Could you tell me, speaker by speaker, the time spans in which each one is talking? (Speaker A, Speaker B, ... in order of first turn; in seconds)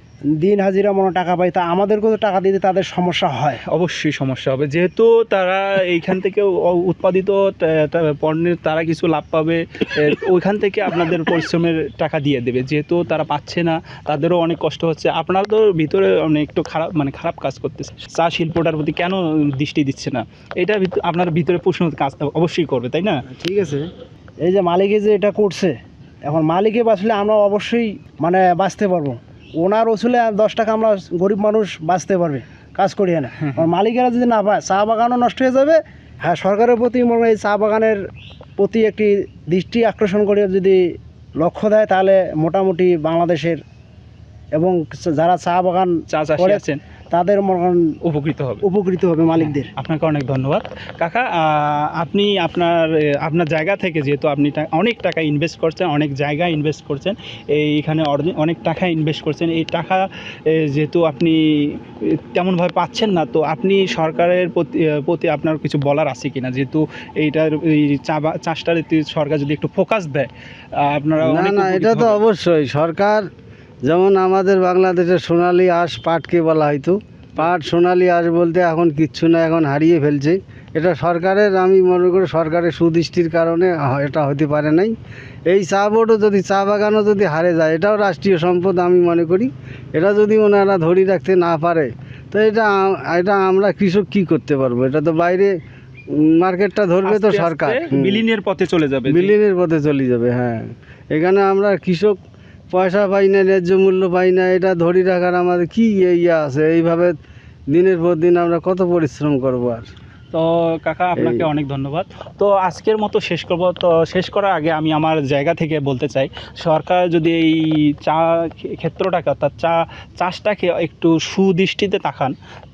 Speaker A: 0.3-3.6, 24.4-38.0, 38.6-40.8, 41.4-43.6, 44.5-47.9, 48.6-49.7
Speaker B: 3.6-23.2, 46.1-46.8, 48.0-48.6, 49.4-72.2, 97.0-99.3, 110.3-122.3
Speaker C: 23.3-23.9, 71.2-73.3, 73.9-85.0, 85.5-95.5, 96.1-98.2, 99.1-102.2, 102.7-107.2, 107.7-109.9, 111.2-111.5